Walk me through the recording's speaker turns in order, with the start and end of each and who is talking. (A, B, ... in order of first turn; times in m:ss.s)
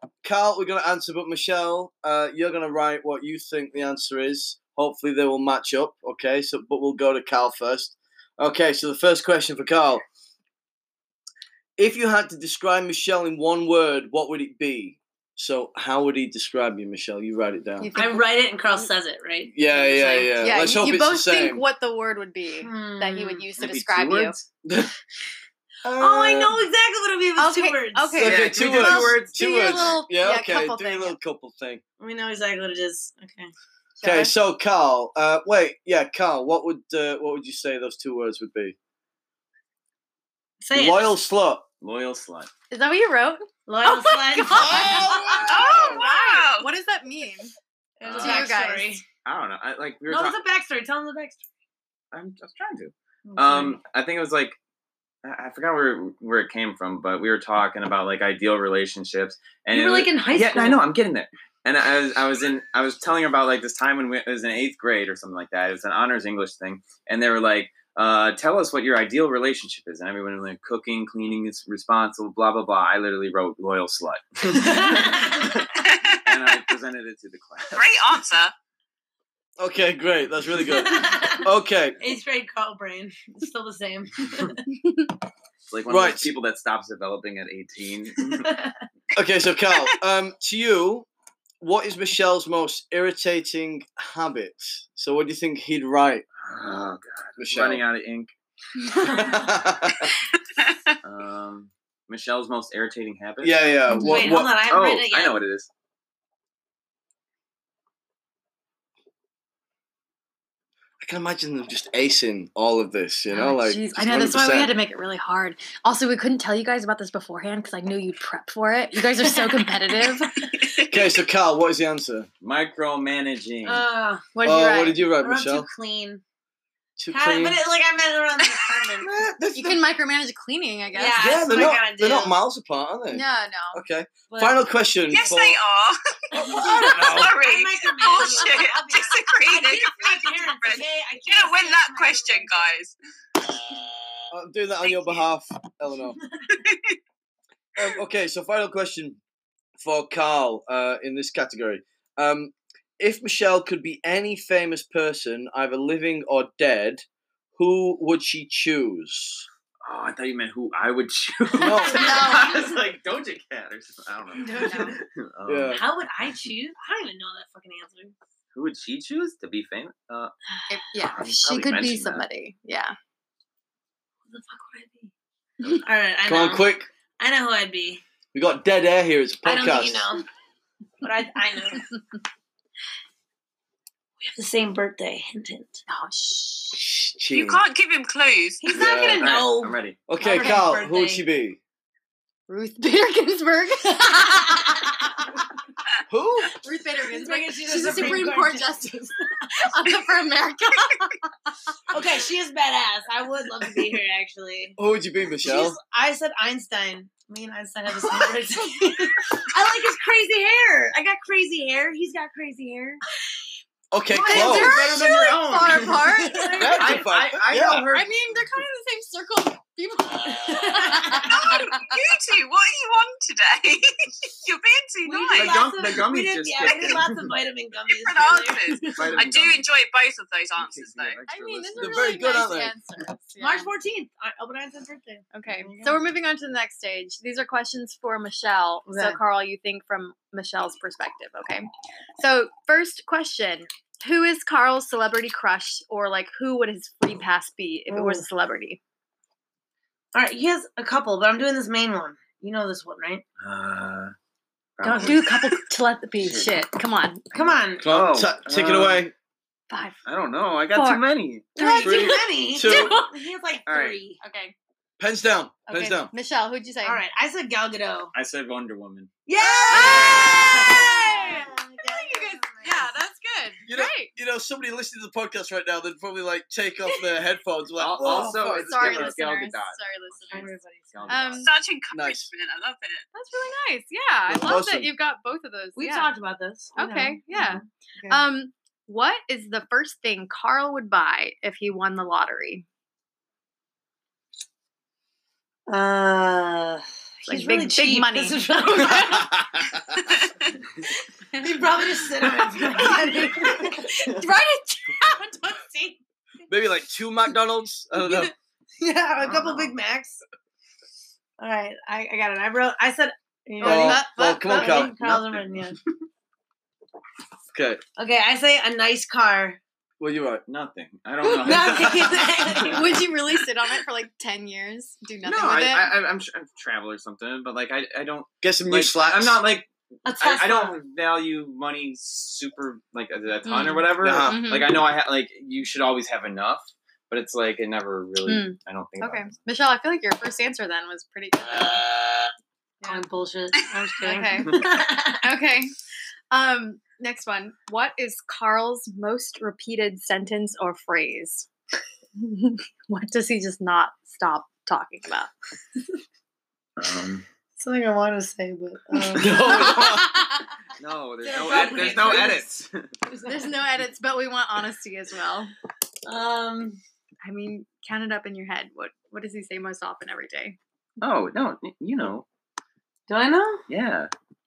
0:00.2-0:10.0 A
0:11.8-0:17.9 A
0:17.8-0:18.8 B
0:17.9-0:20.4 C
0:19.5-0:21.6 A
0:20.4-0:24.4 B
0:22.6-0:23.4 C
0:23.6-0:24.4 D
0:24.6-0:24.9 A
0:25.8-0:26.6 A
0:26.0-0:28.4 C
0:27.4-0:31.2 B
0:28.2-0:31.8 A
0:28.2-0:29.2 D
0:32.0-0:33.5 C
0:34.0-0:34.3 B
0:34.0-0:38.8 A
0:40.6-0:41.2 C
0:40.7-0:41.6 A
0:41.8-0:42.5 D
0:42.7-0:47.5 B
0:43.7-0:45.4 C
0:44.5-0:46.0 A
0:45.5-0:46.7 E
0:48.0-0:49.0 C
0:48.0-0:48.4 D
0:48.2-0:49.0 B
0:49.2-0:50.4 D
0:50.1-0:51.4 C
0:52.1-0:54.6 D
0:53.2-0:53.8 C
0:55.2-1:18.2 D
0:59.7-1:00.8 C
1:14.6-1:15.6 C
1:15.8-1:16.6 E
1:17.7-1:18.5 E
1:19.6-1:22.0 A
1:20.7-1:21.5 C
1:22.0-1:24.6 C
1:24.8-1:25.1 B
1:25.7-1:28.5 D
1:25.9-1:26.3 A
1:28.4-1:28.8 C
1:29.1-1:31.1 A
1:31.6-1:36.2 A
1:36.4-1:38.3 D
1:37.4-1:37.8 A
1:38.9-1:39.4 C
1:39.0-1:40.1 A
1:40.6-1:41.0 E
1:41.0-1:43.6 D
1:43.4-1:44.5 A
1:43.9-1:44.2 B
1:43.9-1:45.4 C
1:44.2-1:45.7 D
1:51.0-1:54.7 A
1:53.3-2:00.5 B
1:59.2-1:59.7 C
2:00.6-2:01.0 E
2:00.9-2:02.3 A
2:02.4-2:03.8 D
2:03.6-2:04.4 C
2:04.3-2:05.0 B
2:04.4-2:05.7 A
2:05.2-2:06.2 C
2:07.0-2:07.6 A
2:07.1-2:09.1 C
2:09.0-2:09.8 A
2:09.5-2:11.4 B
2:10.9-2:12.4 C
2:11.1-2:15.6 A
2:13.1-2:13.8 B
2:14.3-2:14.7 C
2:15.1-2:22.9 E
2:16.4-2:22.6 C
2:16.4-2:17.3 A
2:24.3-2:26.2 A
2:24.8-2:25.2 E
2:26.5-2:27.0 E
2:27.8-2:29.2 A
2:29.8-2:37.0 A
2:37.6-2:39.4 A
2:39.8-2:46.4 D
2:41.6-2:42.2 A
2:41.9-2:42.6 B
2:44.5-2:44.9 C
2:44.5-2:45.0 B
2:45.4-2:45.8 A
2:45.7-2:48.1 C
2:48.5-2:50.3 D
2:50.7-2:52.9 B
2:51.0-2:52.2 D
2:54.3-2:55.1 C
2:55.8-2:58.0 C
2:56.2-2:56.9 A
2:58.3-3:00.1 A
2:59.4-3:00.2 C
3:01.0-3:01.9 C
3:04.2-3:05.8 C
3:05.9-3:06.8 B
3:06.7-3:07.6 A
3:07.3-3:09.0 E
3:08.6-3:11.2 C
3:08.7-3:09.3 A
3:08.8-3:10.0 D
3:10.1-3:11.6 A
3:12.5-3:15.4 B
3:16.1-3:16.5 A
3:16.5-3:21.5 B
3:17.0-3:18.9 C
3:21.9-3:24.8 C
3:24.8-3:25.8 A
3:25.4-3:33.0 C
3:33.9-3:34.8 A
3:34.1-3:36.8 B
3:34.2-3:38.6 D
3:36.1-3:37.1 C
3:36.6-3:37.8 A
3:37.9-3:42.0 B
3:40.3-3:41.4 C
3:41.3-3:45.7 E
3:45.0-3:49.1 C
3:45.3-3:47.3 D
3:47.9-3:51.2 E
3:48.9-3:49.7 D
3:50.6-3:52.0 D
3:51.3-3:53.7 B
3:51.8-3:52.7 A
3:53.4-3:56.0 C
3:55.3-4:08.8 B
3:58.9-3:59.2 C
4:07.9-4:08.2 C
4:10.1-4:13.2 C
4:13.4-4:14.1 D
4:14.8-4:15.5 D
4:14.8-4:17.2 B
4:16.2-4:16.5 D
4:17.3-4:17.9 C
4:17.4-4:19.1 D
4:17.8-4:19.1 A
4:19.7-4:20.0 B
4:20.0-4:22.2 D
4:20.7-4:23.1 B
4:21.6-4:24.2 C
4:22.5-4:22.9 A
4:23.6-4:24.0 D
4:24.2-4:24.5 B
4:25.0-4:26.1 A
4:25.7-4:27.0 B
4:26.8-4:28.1 C
4:28.1-4:29.1 D
4:29.2-4:32.9 C
4:29.4-4:30.8 A
4:29.7-4:34.1 B
4:33.7-4:39.1 A
4:37.8-4:41.5 D
4:38.0-4:41.5 B
4:40.3-4:41.2 C
4:41.4-4:43.0 E
4:41.9-4:42.3 A
4:43.1-4:46.1 B
4:44.3-4:44.9 A
4:45.8-4:47.2 C
4:46.8-4:52.6 B
4:55.7-4:59.4 C
4:57.3-4:59.0 B
5:00.1-5:00.5 E
5:01.3-5:03.9 C
5:02.4-5:03.0 D
5:02.8-5:05.9 B
5:06.5-5:08.3 A
5:08.0-5:08.3 D
5:08.8-5:10.2 C
5:09.2-5:09.7 D
5:11.4-5:16.0 C
5:13.6-5:14.8 B
5:13.6-5:15.0 A
5:14.9-5:15.5 D
5:17.5-5:17.8 A
5:18.0-5:19.6 C
5:20.0-5:20.4 A
5:20.5-5:22.9 D
5:21.4-5:23.0 C
5:22.7-5:25.9 B
5:25.2-5:39.4 D
5:28.4-5:29.4 A
5:30.0-5:30.8 C
5:33.4-5:34.7 B
5:34.0-5:34.4 A
5:38.2-5:41.8 B
5:42.8-5:45.2 C
5:44.0-5:44.7 B
5:45.2-5:45.7 B
5:46.3-5:51.5 B
5:52.2-5:55.3 B
5:56.8-5:57.2 D
5:57.6-6:00.0 C
5:59.1-6:00.2 D
5:59.2-6:00.5 B
6:00.8-6:02.9 D
6:01.2-6:02.5 C
6:01.5-6:02.2 B
6:03.1-6:03.5 C
6:03.3-6:05.5 B
6:06.0-6:06.8 C
6:07.2-6:10.6 B
6:11.0-6:12.2 D
6:13.1-6:13.6 C
6:13.7-6:14.1 D